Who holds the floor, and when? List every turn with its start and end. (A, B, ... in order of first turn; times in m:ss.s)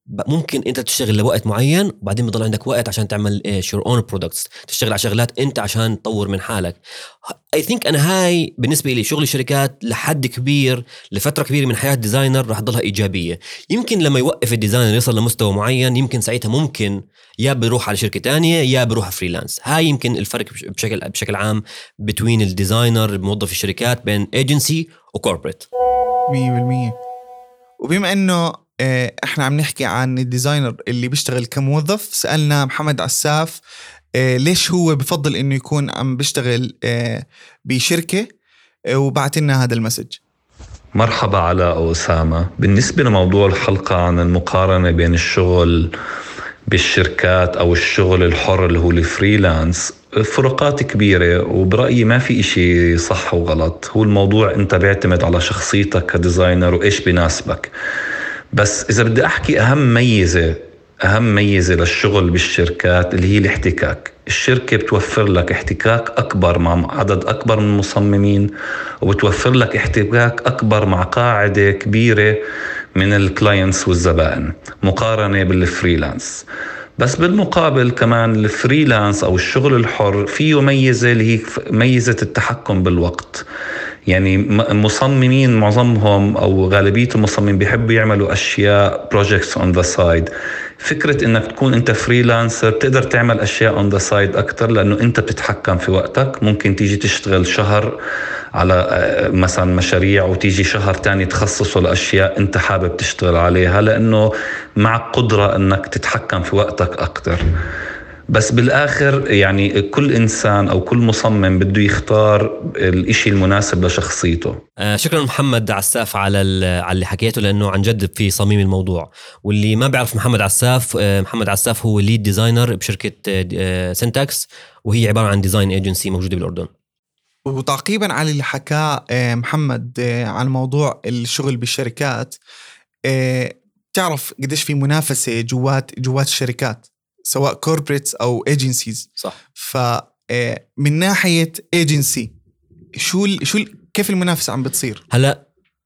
0:00.2-0:06.8 A
0:07.5-0:25.7 A
0:26.3-0:27.0 B
0:27.8-0:33.6 B
0:34.2-0:38.3 B
0:38.9-0:40.2 B
0:41.0-0:45.9 C
0:46.7-0:57.7 C
0:58.5-1:08.5 C
1:09.0-1:12.4 C
1:13.0-1:16.4 C
1:17.0-1:23.4 C
1:24.1-1:30.3 C
1:30.8-1:38.0 C
1:38.6-1:47.5 C
1:48.3-1:54.6 C
1:54.8-2:06.7 A
2:07.5-2:12.4 B
2:13.1-2:22.3 B
2:23.0-2:25.0 B
2:25.1-2:25.4 A